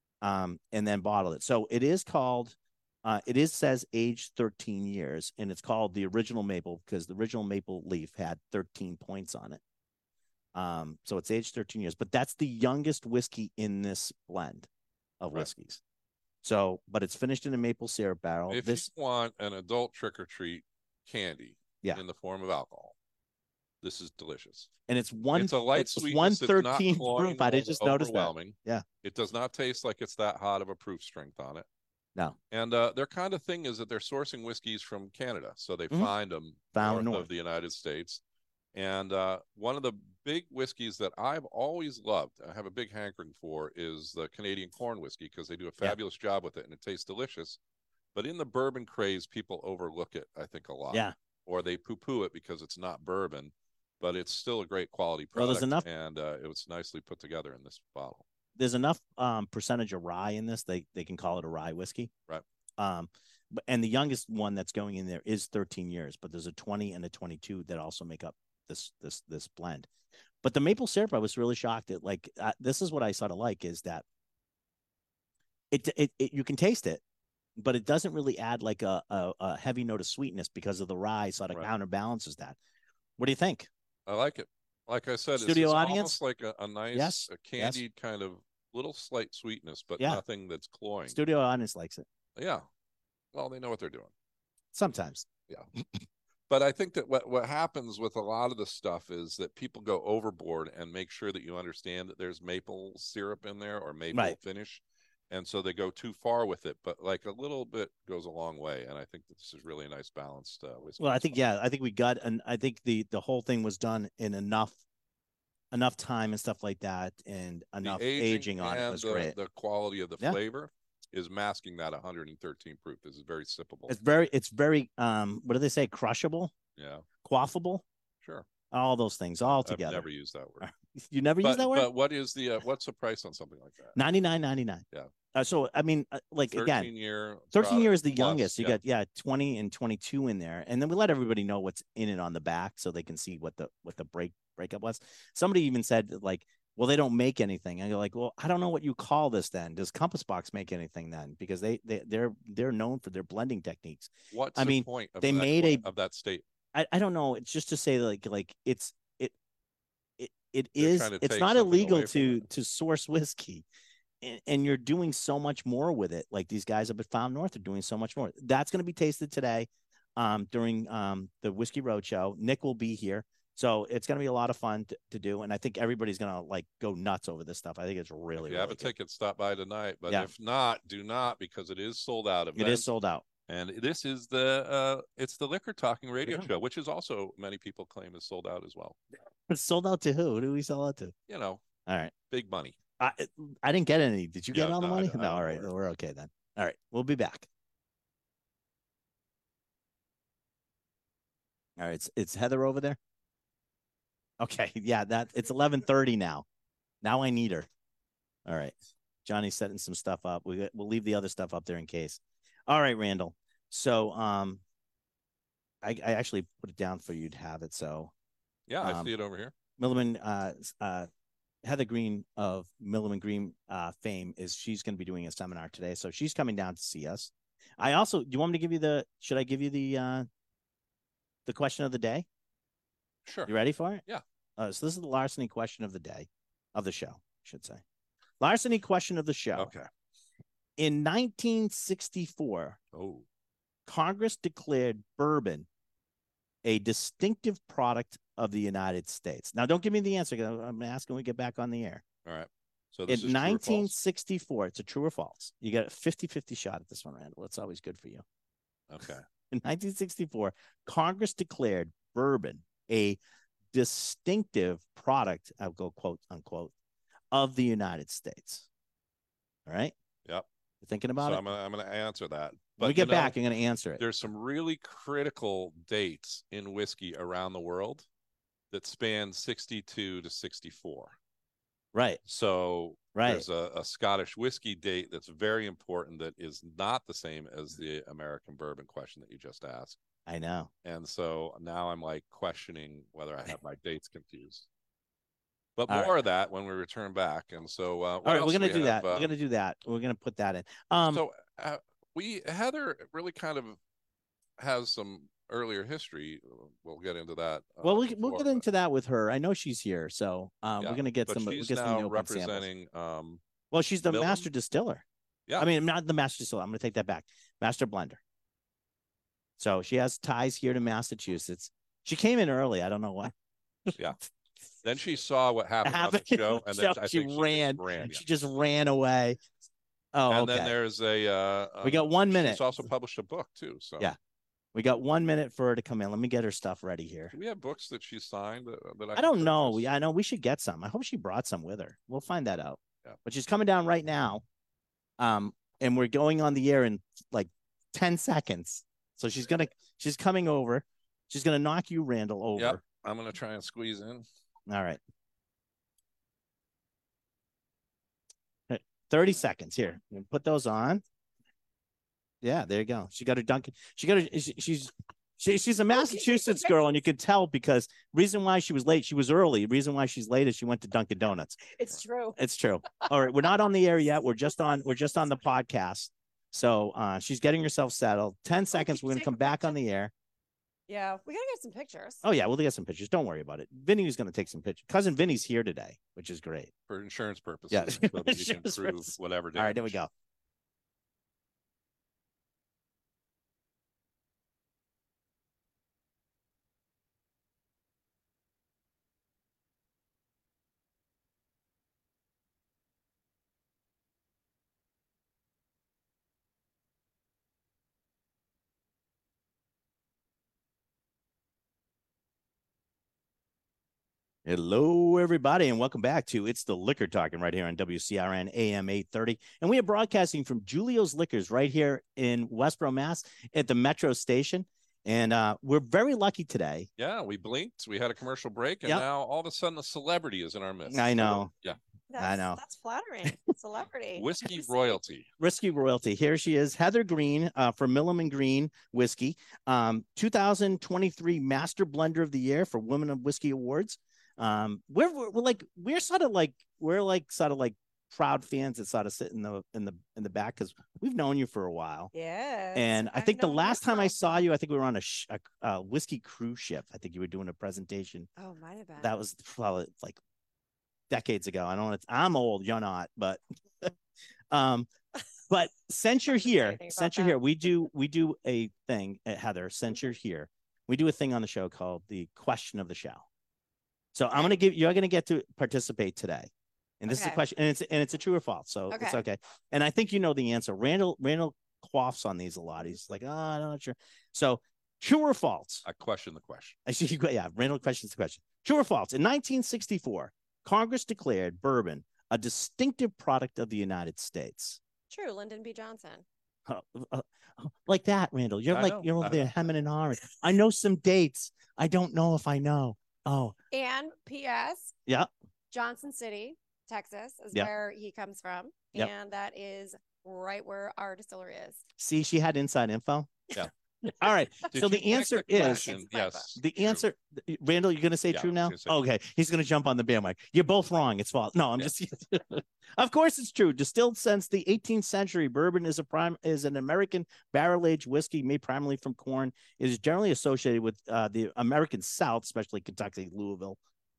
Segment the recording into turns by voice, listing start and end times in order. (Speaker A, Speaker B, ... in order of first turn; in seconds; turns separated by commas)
Speaker A: 0.2-9.6, Speaker A: 10.5-14.7, Speaker A: 15.2-15.8, Speaker A: 16.4-18.9, Speaker B: 18.5-22.9, Speaker B: 23.8-24.7, Speaker A: 24.9-28.8, Speaker B: 25.3-31.6, Speaker B: 32.5-38.2, Speaker A: 36.7-37.3, Speaker B: 38.7-47.6, Speaker B: 48.1-58.2, Speaker A: 55.3-55.8, Speaker A: 58.5-62.1, Speaker A: 62.8-69.9, Speaker A: 70.4-74.0, Speaker A: 75.7-77.0, Speaker A: 77.6-82.6, Speaker A: 83.2-83.7, Speaker B: 84.1-91.2, Speaker A: 85.4-86.2, Speaker A: 86.9-87.8, Speaker A: 91.1-92.0, Speaker B: 92.3-92.7, Speaker B: 93.3-94.1, Speaker A: 94.7-95.3, Speaker B: 96.5-111.4, Speaker A: 111.0-114.8, Speaker A: 115.7-119.3, Speaker B: 117.8-124.0, Speaker A: 123.9-126.5, Speaker B: 126.8-127.1, Speaker A: 127.2-127.8, Speaker A: 128.7-130.1, Speaker B: 129.5-130.7, Speaker A: 130.6-131.9, Speaker B: 131.4-134.0, Speaker A: 133.9-134.8, Speaker A: 135.3-136.9, Speaker B: 136.5-138.8, Speaker A: 137.5-155.8, Speaker B: 154.3-156.4, Speaker A: 156.7-159.3, Speaker A: 160.2-163.6, Speaker B: 160.8-162.4, Speaker A: 164.2-178.9, Speaker B: 178.4-182.9, Speaker A: 182.6-183.2, Speaker B: 183.5-189.0, Speaker A: 189.5-191.1, Speaker B: 191.3-191.6, Speaker A: 191.8-192.1, Speaker B: 192.3-192.8, Speaker A: 193.0-197.5, Speaker B: 194.5-195.7, Speaker A: 201.8-203.0, Speaker A: 204.4-206.4, Speaker A: 207.0-207.7, Speaker A: 208.4-214.6, Speaker A: 215.8-218.1, Speaker B: 218.7-219.5, Speaker A: 218.8-219.1, Speaker A: 219.8-221.1, Speaker A: 221.6-230.2, Speaker A: 231.4-232.2, Speaker B: 233.2-233.5, Speaker A: 233.4-234.0, Speaker A: 234.6-237.8, Speaker A: 238.4-239.7, Speaker B: 239.6-239.9, Speaker A: 240.8-242.8, Speaker B: 242.9-243.2, Speaker A: 243.8-245.7, Speaker A: 246.6-252.0, Speaker B: 252.2-253.9, Speaker A: 253.1-258.2, Speaker B: 258.9-259.2, Speaker A: 259.5-263.2, Speaker A: 263.7-266.7, Speaker A: 267.3-268.7, Speaker A: 269.6-269.9, Speaker A: 270.8-271.4, Speaker B: 271.2-273.4, Speaker A: 272.8-274.0, Speaker B: 274.0-278.1, Speaker B: 278.7-281.1, Speaker A: 281.9-282.2, Speaker B: 282.2-290.0, Speaker A: 283.1-283.4, Speaker A: 290.3-290.7, Speaker B: 290.8-294.6, Speaker B: 295.8-299.3, Speaker A: 295.9-296.1, Speaker A: 298.2-301.2, Speaker B: 301.1-303.8, Speaker B: 304.6-308.6, Speaker A: 307.8-312.7, Speaker B: 310.8-313.4, Speaker A: 313.7-315.0, Speaker B: 314.1-314.4, Speaker A: 315.6-318.2, Speaker A: 319.6-323.3, Speaker B: 324.8-328.2, Speaker A: 325.8-329.4, Speaker A: 330.1-330.7, Speaker B: 330.3-334.1, Speaker A: 331.8-332.6, Speaker A: 334.7-337.3, Speaker B: 337.3-339.9, Speaker A: 339.1-344.4, Speaker A: 345.2-352.8, Speaker B: 352.6-354.2, Speaker A: 354.7-355.0, Speaker A: 358.7-361.0, Speaker A: 362.4-371.7, Speaker C: 365.9-366.8, Speaker C: 371.7-372.4, Speaker A: 372.4-380.1, Speaker C: 378.7-379.7, Speaker C: 380.9-382.2, Speaker A: 382.2-386.7, Speaker B: 386.9-389.9, Speaker A: 387.7-390.1, Speaker A: 414.4-426.9, Speaker B: 427.0-431.8, Speaker A: 430.9-431.5, Speaker C: 432.1-434.8, Speaker A: 432.2-432.6, Speaker B: 434.1-435.3, Speaker A: 435.4-452.1, Speaker C: 452.1-454.4, Speaker A: 452.7-458.3, Speaker C: 458.4-459.1, Speaker A: 459.0-460.2, Speaker A: 461.1-463.9, Speaker A: 464.5-464.9, Speaker A: 465.5-473.2, Speaker C: 466.3-467.4, Speaker A: 474.1-476.5, Speaker A: 477.0-485.8, Speaker C: 477.1-477.4, Speaker C: 478.9-479.2, Speaker B: 485.8-486.8, Speaker A: 486.9-494.8, Speaker C: 495.1-496.2, Speaker A: 496.7-503.5, Speaker B: 498.7-499.5, Speaker C: 503.7-504.9, Speaker C: 505.7-511.8, Speaker A: 512.0-516.0, Speaker B: 514.7-517.0, Speaker C: 515.5-516.5, Speaker A: 516.5-533.8, Speaker B: 518.3-519.0